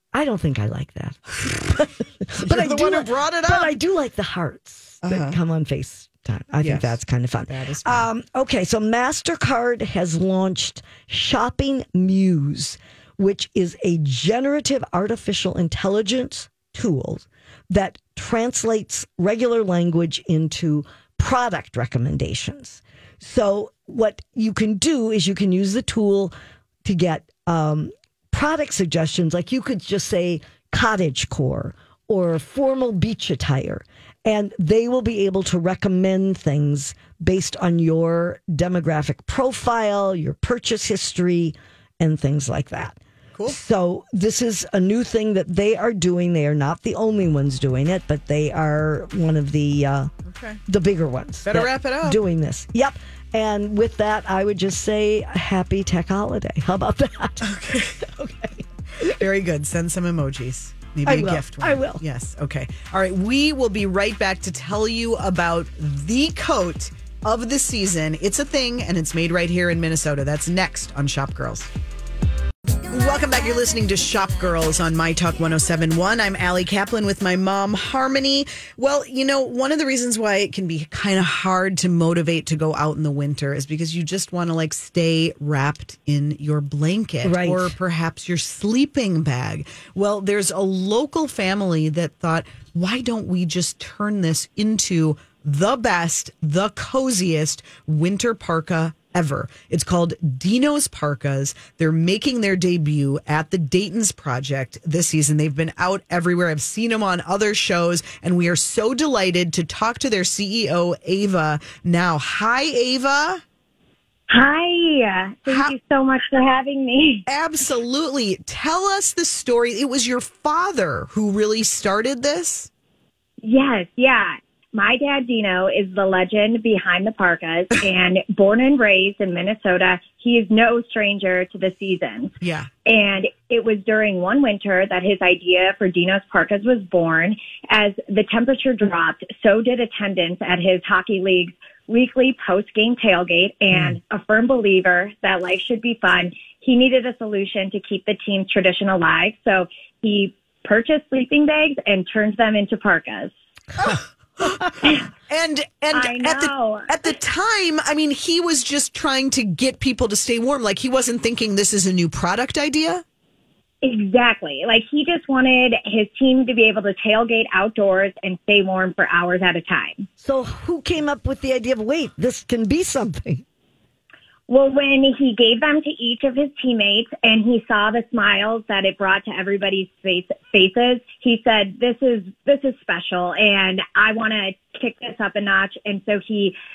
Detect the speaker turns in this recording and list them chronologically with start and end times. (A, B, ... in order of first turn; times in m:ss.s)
0:00.1-0:26.3 A
0:02.4-0:03.7 B
0:05.0-0:05.4 B
0:06.6-0:08.1 B
0:26.8-0:43.0 A
0:43.5-0:50.1 A
0:50.3-0:50.6 B
0:50.7-0:57.5 A
0:51.4-0:52.2 B
0:57.4-0:58.3 B
0:58.4-0:59.2 A
0:59.0-1:11.7 B
1:01.0-1:02.0 A
1:12.9-1:53.4 B
1:27.2-1:27.7 A
1:54.3-1:57.2 C
1:55.5-1:55.7 B
1:57.3-2:02.7 B
2:03.4-2:12.3 C
2:12.4-2:12.7 B
2:12.9-2:33.3 C
2:33.8-2:43.0 B
2:35.9-2:37.0 C
2:43.8-2:50.0 C
2:50.2-2:53.4 A
2:54.5-3:06.6 C